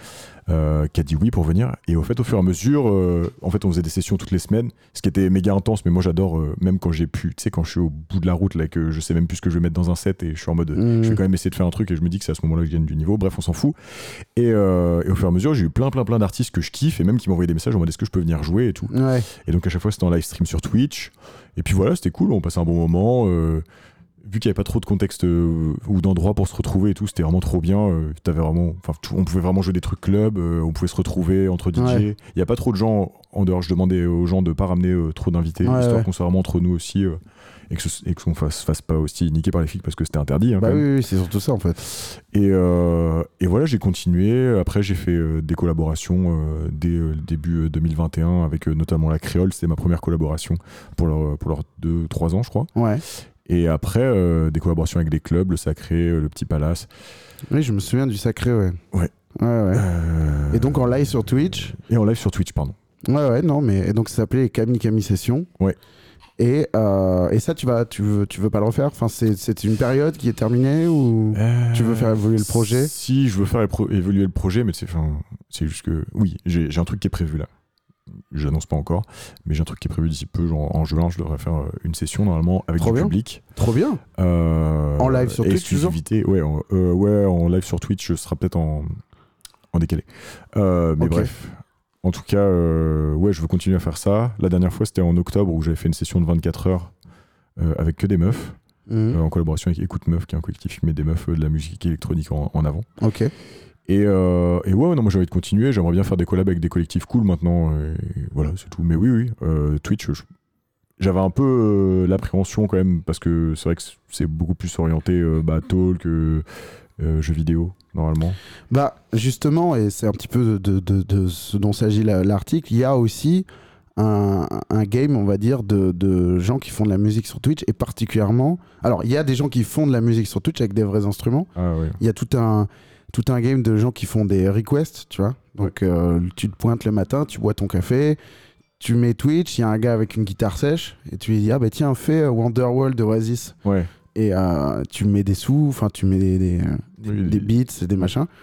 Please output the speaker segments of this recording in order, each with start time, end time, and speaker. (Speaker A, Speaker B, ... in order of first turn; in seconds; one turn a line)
Speaker A: 0.5-13.8
Speaker B: 10.7-11.2
Speaker A: 14.3-23.6
Speaker B: 18.9-19.3
Speaker A: 24.2-40.8
Speaker B: 31.8-32.1
Speaker B: 35.6-36.1
Speaker B: 40.6-41.8
Speaker A: 41.9-52.7
Speaker B: 52.7-53.0
Speaker A: 53.4-56.9
Speaker B: 57.5-58.8
Speaker B: 59.4-59.8
Speaker A: 59.7-62.8
Speaker B: 60.5-61.7
Speaker B: 63.0-65.5
Speaker B: 66.4-72.9
Speaker A: 71.3-77.5
Speaker A: 78.3-83.4
Speaker B: 82.8-84.0
Speaker A: 84.2-89.0
Speaker B: 85.0-86.0
Speaker A: 89.7-96.9
Speaker B: 91.0-91.3
Speaker A: 97.6-98.6
Speaker B: 98.9-99.2
Speaker A: 99.1-102.8
Speaker B: 103.0-103.3
Speaker A: 103.9-110.2
Speaker A: 111.0-116.4
Speaker A: 117.0-118.4
Speaker B: 118.7-123.5
Speaker B: 124.0-131.5
Speaker A: 131.6-132.0
Speaker B: 132.0-138.2
Speaker B: 138.8-143.5
Speaker A: 143.6-143.9
Speaker B: 144.1-148.3
Speaker A: 147.0-147.5